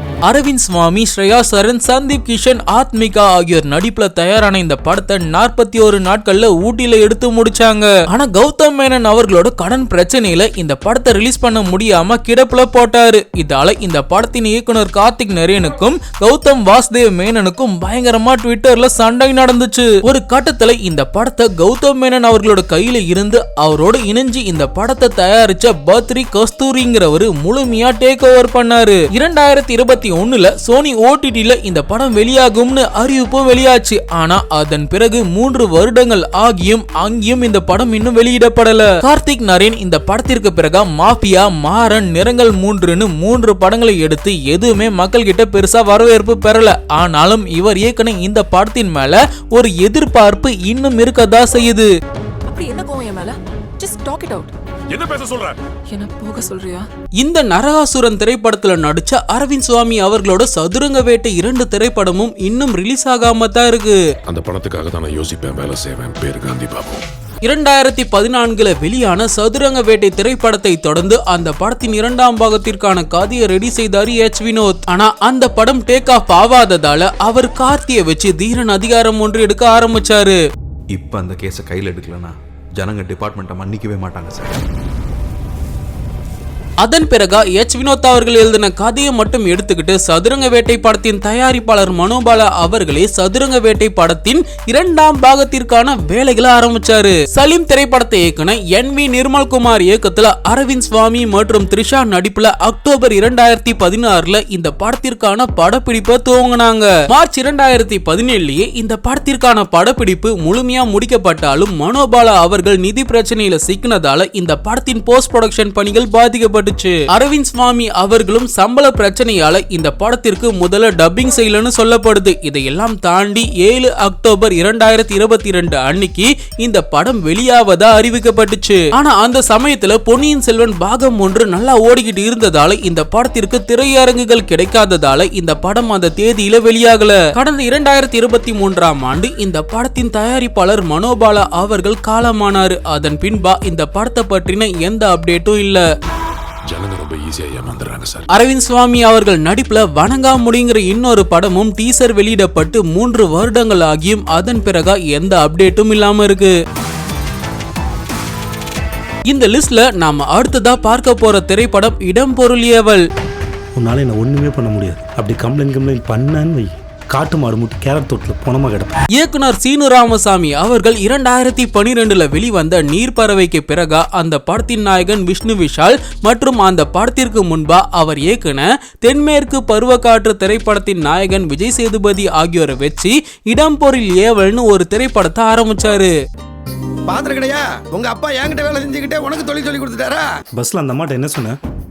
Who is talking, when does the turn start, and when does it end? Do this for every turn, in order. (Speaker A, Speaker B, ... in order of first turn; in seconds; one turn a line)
Speaker A: 0.3-51.9
Speaker B: 52.5-54.5
Speaker C: 54.9-55.6
Speaker B: 55.9-56.9
Speaker A: 57.2-64.0
Speaker C: 64.3-67.0
Speaker A: 67.5-80.4
Speaker D: 80.9-84.6
Speaker A: 86.8-145.8
Speaker C: 146.7-148.3
Speaker A: 148.3-156.5
Speaker A: 159.3-163.0
Speaker E: 163.8-169.0
Speaker A: 169.2-186.1
Speaker F: 187.1-190.2
Speaker E: 190.6-191.6